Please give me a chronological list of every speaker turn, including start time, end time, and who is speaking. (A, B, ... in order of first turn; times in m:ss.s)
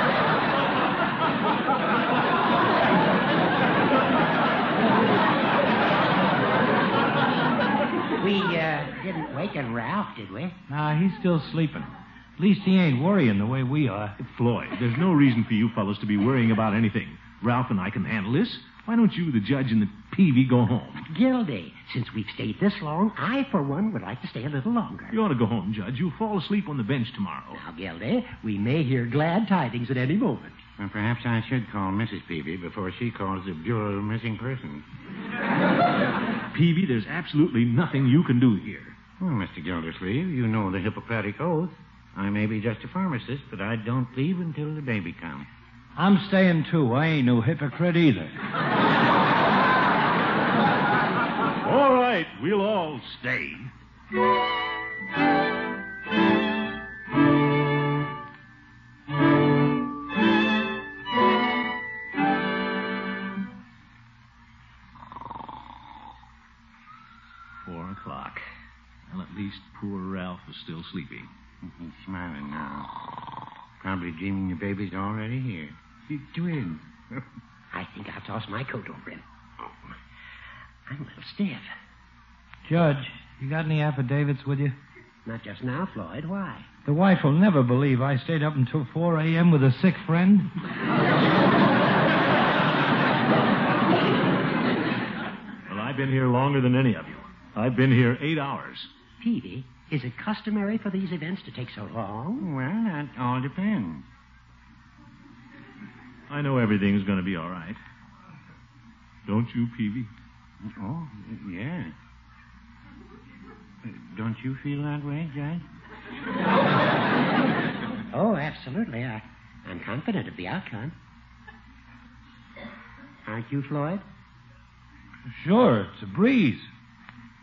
0:08.2-0:10.6 A
0:10.7-0:14.2 B
0:14.2-0:21.0 C
0:21.0-0:25.2 A
0:25.1-0:27.6 C
0:27.5-0:30.6 A
0:30.8-0:34.8 D
0:36.5-0:38.9 C
0:39.2-0:45.5 D
0:46.0-0:48.3 B
0:51.6-0:53.7 C
1:07.6-1:08.4 C
1:09.1-1:11.3 C
1:11.6-1:12.9 D
1:13.8-1:17.2 D
1:17.7-1:19.7 A
1:20.9-1:21.7 A
1:22.6-1:24.8 B
1:25.2-1:26.7 A
1:26.8-1:30.5 B
1:35.7-1:38.9 C
1:39.2-1:42.4 A
1:42.4-1:44.0 D
1:46.3-1:47.8 C
1:49.2-1:50.1 C
1:50.6-1:51.9 D
1:53.8-1:55.6 D
1:58.1-2:00.9 A
2:03.2-2:04.0 A
2:05.3-2:06.7 B